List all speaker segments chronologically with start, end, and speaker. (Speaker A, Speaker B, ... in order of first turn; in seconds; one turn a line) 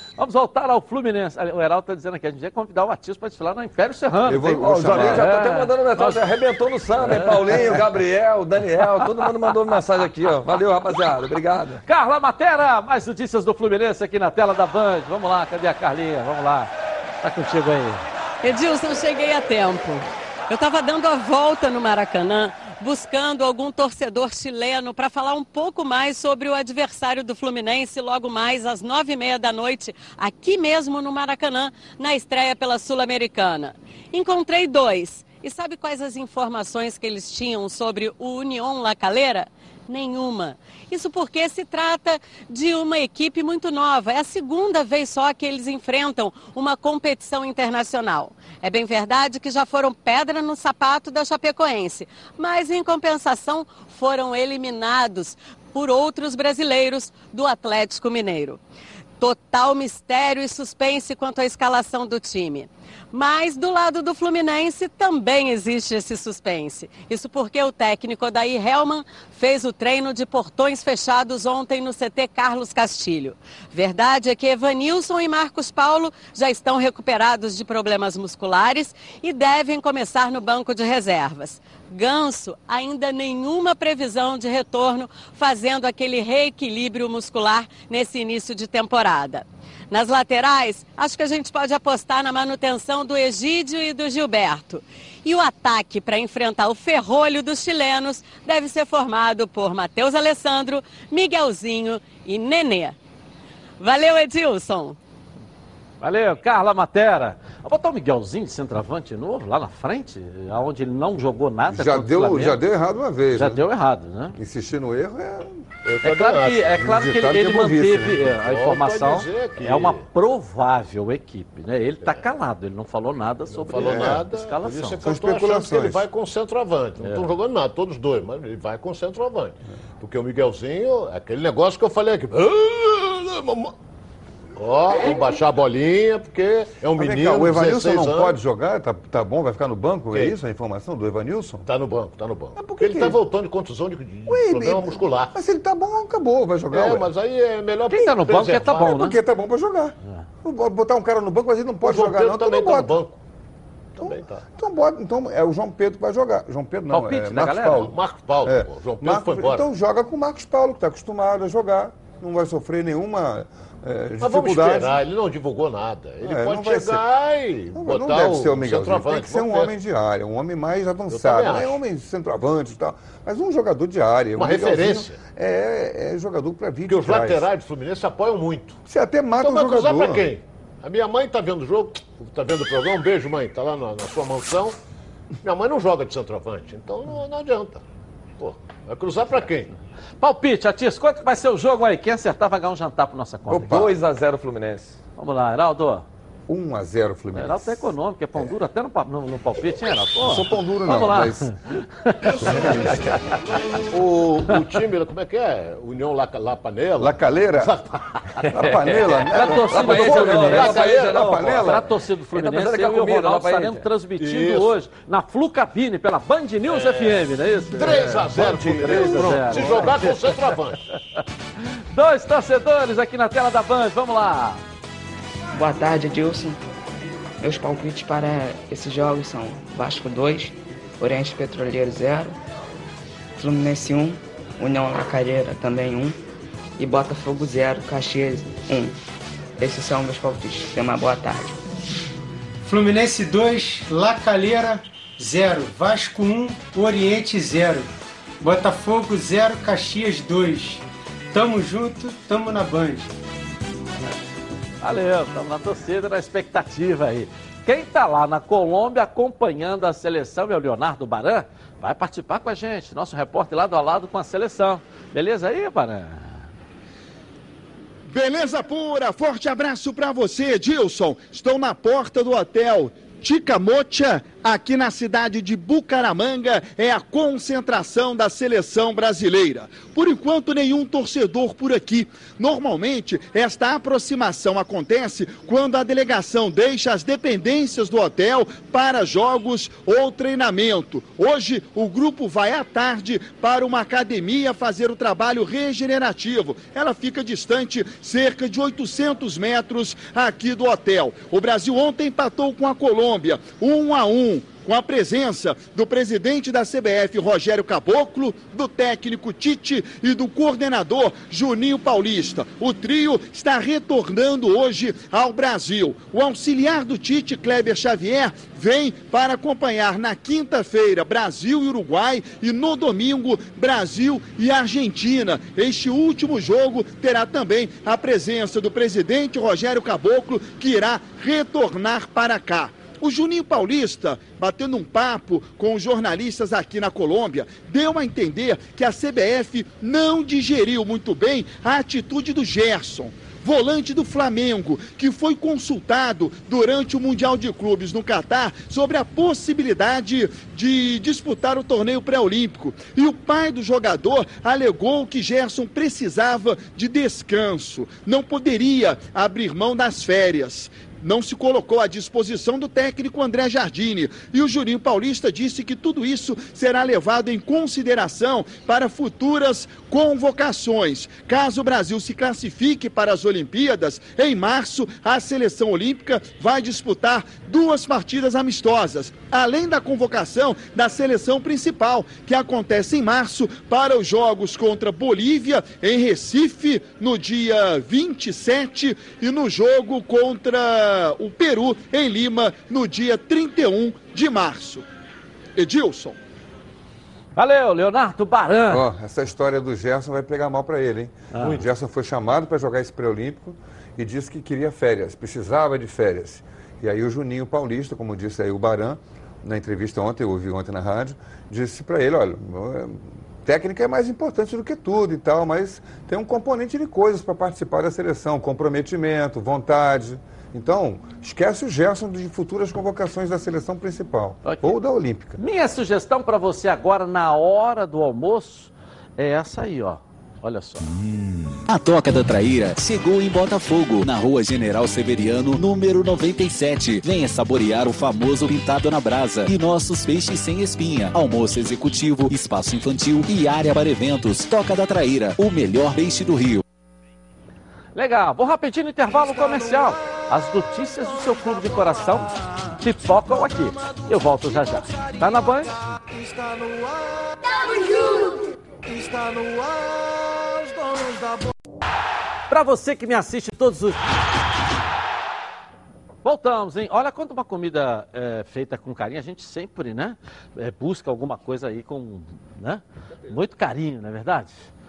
Speaker A: 0.2-6.2
Speaker B: 4.3-5.2
Speaker C: 4.7-11.8
Speaker A: 7.0-7.8
Speaker A: 9.0-9.3
Speaker A: 11.9-16.7
Speaker A: 17.2-18.0
Speaker D: 18.4-58.6
Speaker D: 59.2-103.0
Speaker D: 103.8-105.0
Speaker A: 106.0-112.6
Speaker B: 111.7-113.6
Speaker A: 113.3-114.4
Speaker B: 114.4-115.6
Speaker E: 115.8-116.9
Speaker A: 116.0-125.0
Speaker B: 116.8-118.2
Speaker E: 118.3-120.0
Speaker E: 123.5-133.7
Speaker B: 123.8-124.2
Speaker B: 125.0-126.0
Speaker A: 127.0-127.3
Speaker E: 134.6-138.4
Speaker B: 137.0-141.7
Speaker E: 141.7-145.3
Speaker B: 142.6-143.2
Speaker B: 144.3-147.1
Speaker E: 146.7-149.0
Speaker A: 147.9-149.2
Speaker B: 148.7-153.0
Speaker E: 151.8-153.2
Speaker E: 154.0-154.4
Speaker B: 154.0-165.0
Speaker A: 156.9-157.9
Speaker E: 157.7-159.7
Speaker E: 164.2-169.7
Speaker B: 166.2-167.0
Speaker B: 167.8-177.5
Speaker E: 171.1-171.8
Speaker E: 174.4-175.2
Speaker E: 176.9-178.8
Speaker B: 178.9-180.3
Speaker E: 179.4-184.8
Speaker E: 185.4-187.8
Speaker E: 188.4-189.7
Speaker A: 190.2-193.9
Speaker B: 193.5-193.9
Speaker C: 193.6-194.9
Speaker A: 195.2-196.1
Speaker B: 196.5-197.9
Speaker A: 197.3-203.5
Speaker B: 200.2-201.5
Speaker B: 202.4-203.1
Speaker E: 203.9-208.0
Speaker B: 207.0-207.7
Speaker B: 208.5-211.8
Speaker C: 208.6-211.8
Speaker A: 209.3-220.4
Speaker E: 209.8-211.2
Speaker C: 212.3-213.9
Speaker E: 214.2-214.7
Speaker E: 216.7-217.3
Speaker E: 217.8-220.8
Speaker B: 218.0-219.9
Speaker A: 221.9-224.6
Speaker F: 225.5-226.6
Speaker F: 227.4-232.4
Speaker F: 233.4-236.2
Speaker F: 236.8-238.9
Speaker F: 239.6-241.6
Speaker G: 242.7-247.9
Speaker G: 248.4-253.1
Speaker A: 254.8-266.4
Speaker H: 268.1-394.9
Speaker H: 395.6-396.2
Speaker A: 397.4-398.8
Speaker B: 398.7-425.4
Speaker A: 401.3-401.6
Speaker A: 424.4-424.8
Speaker A: 425.4-430.9
Speaker I: 431.7-446.6
Speaker A: 447.9-455.7
Speaker J: 449.1-450.1
Speaker J: 451.2-461.6
Speaker A: 462.5-464.0
Speaker A: 466.2-474.6